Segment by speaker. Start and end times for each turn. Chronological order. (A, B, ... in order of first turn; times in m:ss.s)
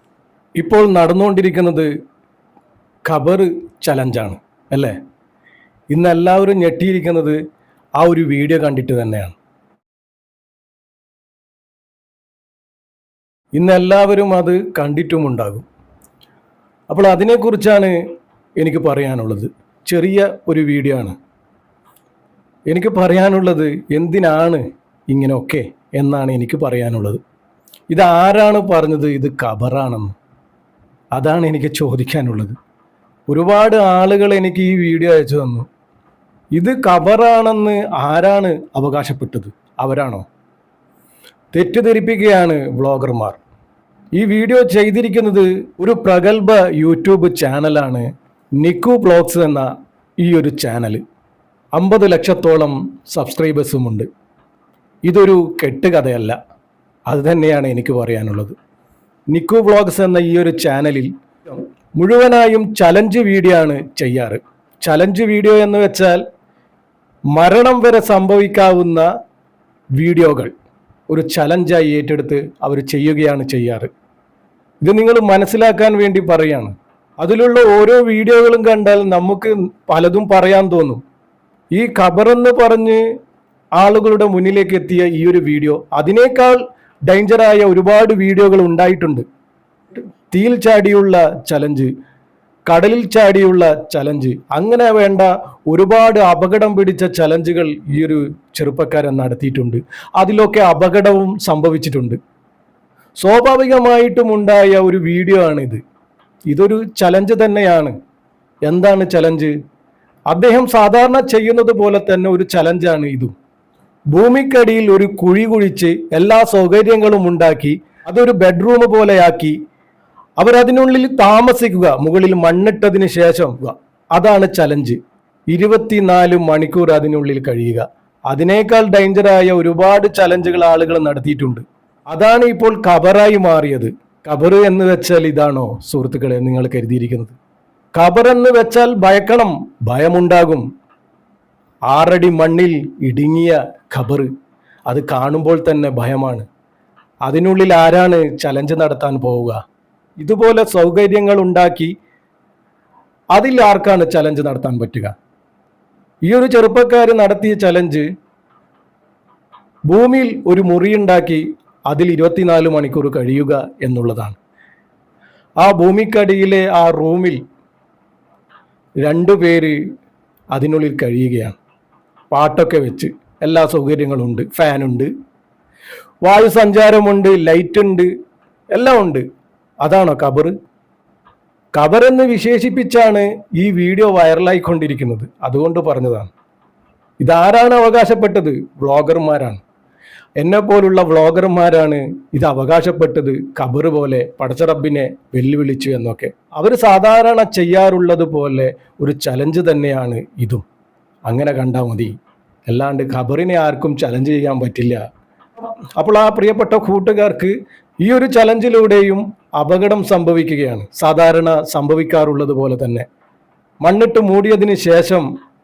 0:00.6-0:01.9 A
0:03.0-0:05.0 A
0:05.9-0:07.4 A
0:08.0-0:09.3 A
0:13.6-0:15.6 A
0:16.9-0:18.0 A
0:18.6-0:21.2 A
0:22.7-0:27.2 A
0:27.9-0:30.1 A
0:31.1-0:32.6 A
0:33.3-0:35.7 A
0:36.5-0:40.2 A
0:41.5-0:43.4 A
0:44.1-0:48.1 A
0:48.6-0:49.7 A
0:50.2-0:51.0 A
0:51.7-0:54.1 A
0:55.0-0:56.4 A
0:57.1-0:58.5 A
0:59.3-1:06.2 A
1:07.3-1:09.1 A
1:10.0-1:10.5 A
1:11.1-1:13.9 A
1:14.8-1:21.0 A
1:21.7-1:23.0 A
1:23.8-1:29.2 A
1:30.3-1:31.9 A
1:32.7-1:42.2 A
1:43.2-1:45.8 A
1:46.5-1:47.9 A
1:48.7-1:49.5 A
1:50.3-1:53.3 A
1:54.1-1:59.6 A
2:00.4-2:05.0 A
2:05.5-2:17.4 A
2:18.0-2:20.6 A
2:21.9-2:24.3 A
2:24.8-2:26.4 A
2:27.2-2:29.6 A
2:30.2-2:31.9 A
2:33.3-2:35.1 A
2:36.2-2:38.1 A
2:39.9-2:44.4 A
2:45.6-2:47.4 A
2:49.0-2:49.8 A
2:50.5-2:51.6 A
2:52.3-2:55.1 A
2:56.2-2:58.1 A
2:58.7-2:59.2 A
2:59.8-3:00.5 A
3:01.7-3:06.3 A
3:07.2-3:09.6 A
3:10.4-3:20.6 A
3:21.3-3:22.1 A
3:22.7-3:25.0 A
3:25.6-3:33.0 A
3:33.8-3:35.3 A